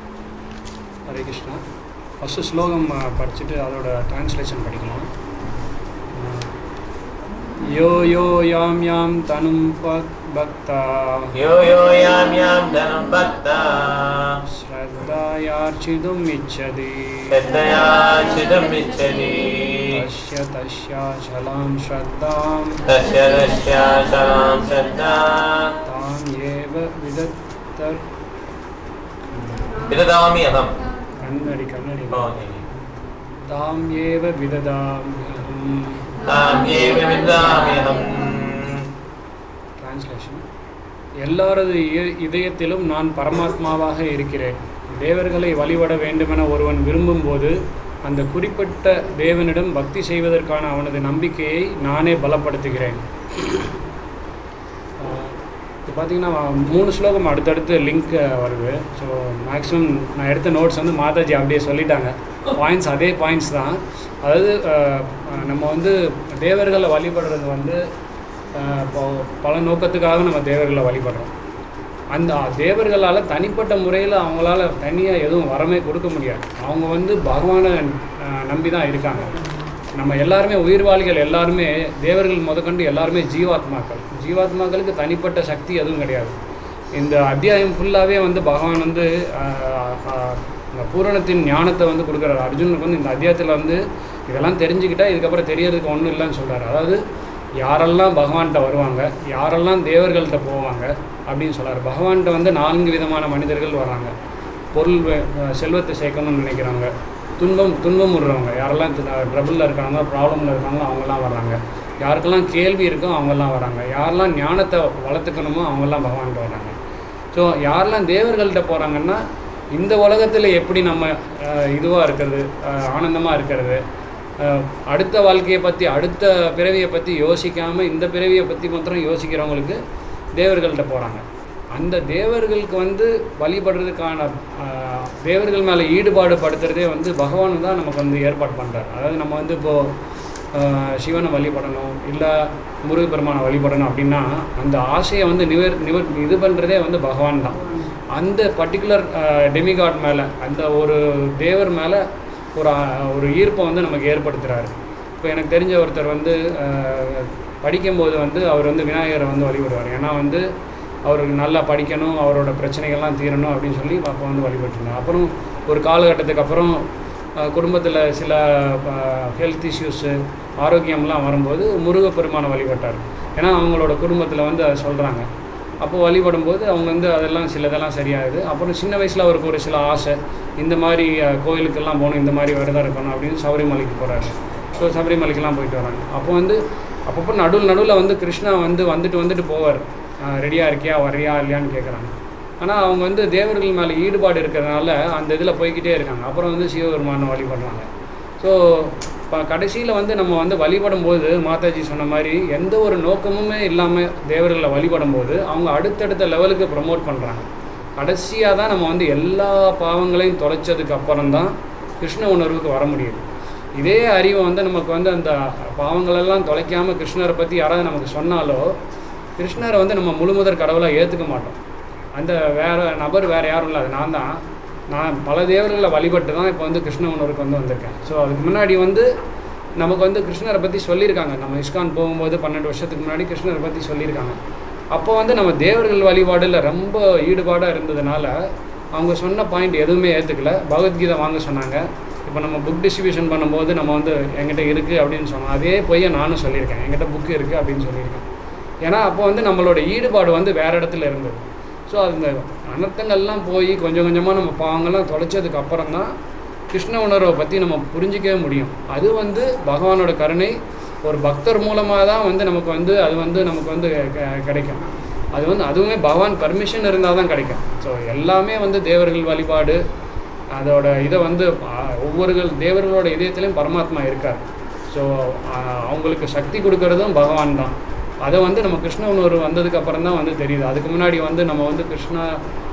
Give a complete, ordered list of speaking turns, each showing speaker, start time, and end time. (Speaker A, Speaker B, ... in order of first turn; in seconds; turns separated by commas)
Speaker A: 1.1-1.6, Speaker A: 2.2-5.1, Speaker A: 6.1-6.5, Speaker A: 7.7-11.3, Speaker B: 11.3-14.4, Speaker A: 14.5-17.6, Speaker B: 17.3-20.0, Speaker A: 19.9-22.8, Speaker B: 22.9-25.7, Speaker A: 25.9-28.0, Speaker A: 29.3-29.8, Speaker B: 29.9-30.8, Speaker A: 31.2-32.3, Speaker B: 32.1-32.6, Speaker A: 33.5-36.5, Speaker B: 36.2-38.9, Speaker A: 39.8-40.4, Speaker A: 41.2-53.0, Speaker A: 55.0-67.8, Speaker A: 68.5-71.3, Speaker A: 72.1-79.3, Speaker A: 80.0-86.3, Speaker A: 86.9-97.0, Speaker A: 97.6-104.1, Speaker A: 104.7-116.7, Speaker A: 117.3-119.2, Speaker A: 119.8-123.8, Speaker A: 124.4-129.8, Speaker A: 130.4-131.2, Speaker A: 131.7-139.9, Speaker A: 140.5-147.6, Speaker A: 148.1-152.0, Speaker A: 152.6-160.4, Speaker A: 161.1-166.8, Speaker A: 167.4-175.3, Speaker A: 175.8-197.9, Speaker A: 198.4-213.2, Speaker A: 213.8-218.6, Speaker A: 219.4-221.6, Speaker A: 222.2-224.4, Speaker A: 224.9-229.1, Speaker A: 229.8-234.4, Speaker A: 234.9-238.3, Speaker A: 238.9-248.2, Speaker A: 248.8-256.1, Speaker A: 256.7-264.8, Speaker A: 265.3-269.8, Speaker A: 270.5-282.3